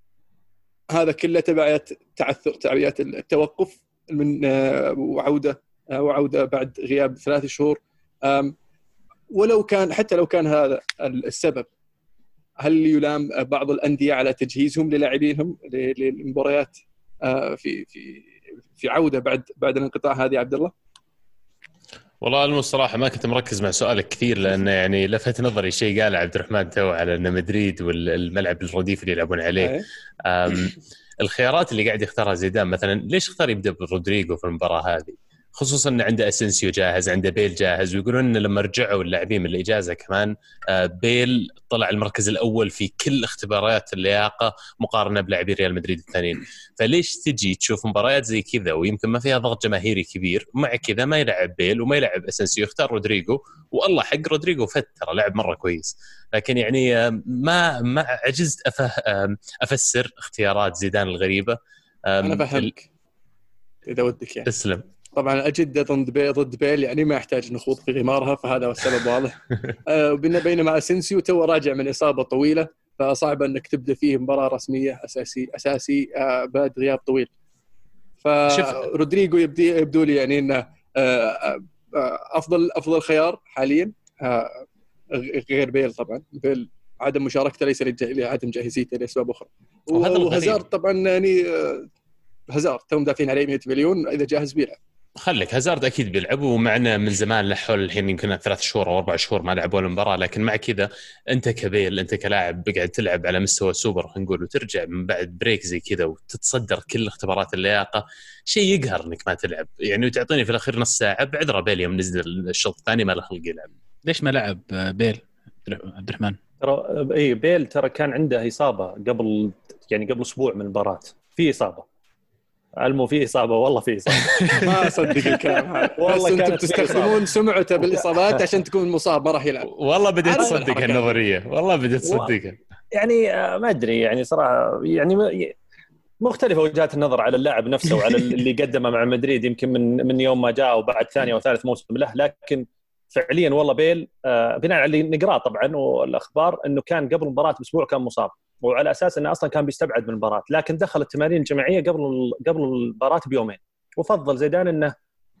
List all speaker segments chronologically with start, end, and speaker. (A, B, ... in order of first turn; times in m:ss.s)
0:00.9-0:08.5 A
0:09.3-0:11.7 A
0:12.6-0:18.3 A
0:18.8-0:20.7 A
0:22.2-1:01.6 B
0:29.6-0:29.8 A
1:02.1-1:02.7 B
1:02.2-1:02.8 A
1:03.8-1:04.5 A
1:04.5-1:04.8 B
1:05.1-1:17.3 A
1:18.2-1:31.9 A
1:18.5-1:18.8 B
1:29.9-1:30.6 B
1:32.5-1:34.8 A
1:35.2-1:53.7 B
1:54.0-1:56.4 C
1:56.6-2:01.8 D
2:02.8-2:04.7 D
2:04.6-2:09.7 A
2:05.8-2:08.4 D
2:09.7-2:12.6 B
2:10.2-2:11.2 A
2:12.0-2:12.3 D
2:12.9-2:15.6 D
2:16.2-2:34.9 D